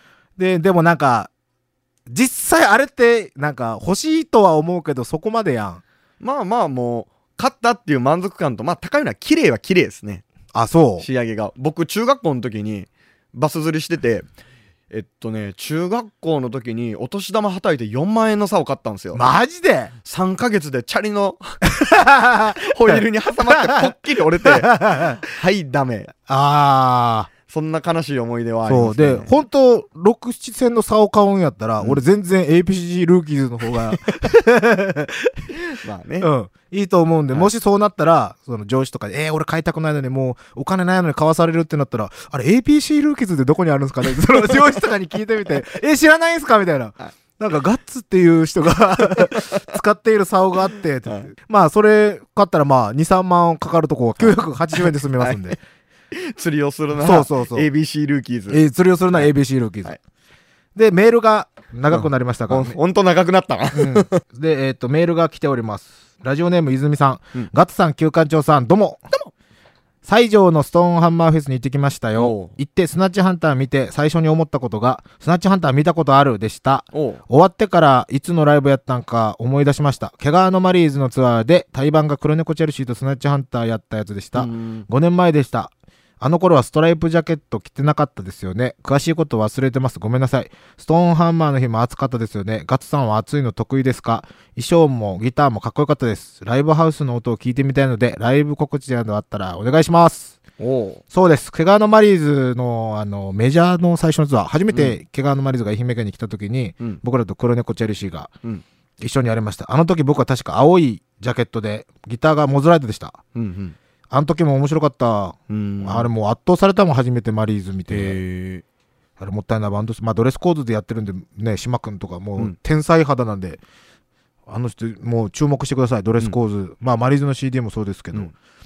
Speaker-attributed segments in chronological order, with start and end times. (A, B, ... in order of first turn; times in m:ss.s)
0:00.4-0:01.3 A
0:02.1-0:05.8 A
0:06.2-0:10.2 B
0:10.5-0:11.0 A
0:11.0-0:14.3 B
0:14.9-0:19.2 B
0:19.1-0:19.9 A
0:20.0-0:21.6 B
0:21.7-0:23.9 A
0:22.6-0:26.1 B
0:24.4-0:25.2 A
0:26.3-0:27.3 A
0:27.5-0:29.3 B
0:28.6-0:35.5 A
0:35.7-0:36.3 B
0:36.2-0:55.6 A
0:49.3-0:49.6 B
0:54.2-0:55.5 B
0:56.1-0:58.6 B
0:56.9-0:57.7 A
0:58.5-1:00.0 A
1:00.7-1:02.8 A
1:01.9-1:04.2 B
1:03.7-1:09.0 A
1:10.0-1:40.4 A
1:12.1-1:12.5 B
1:16.9-1:17.2 B
1:24.3-1:24.9 B
1:40.6-1:41.0 B
1:41.1-1:48.3 A
1:49.0-1:53.2 A
1:53.3-1:53.8 B
1:54.1-1:58.2 A
1:55.5-1:56.1 B
1:57.9-1:58.6 B
1:59.2-2:03.6 A
2:04.5-2:08.3 A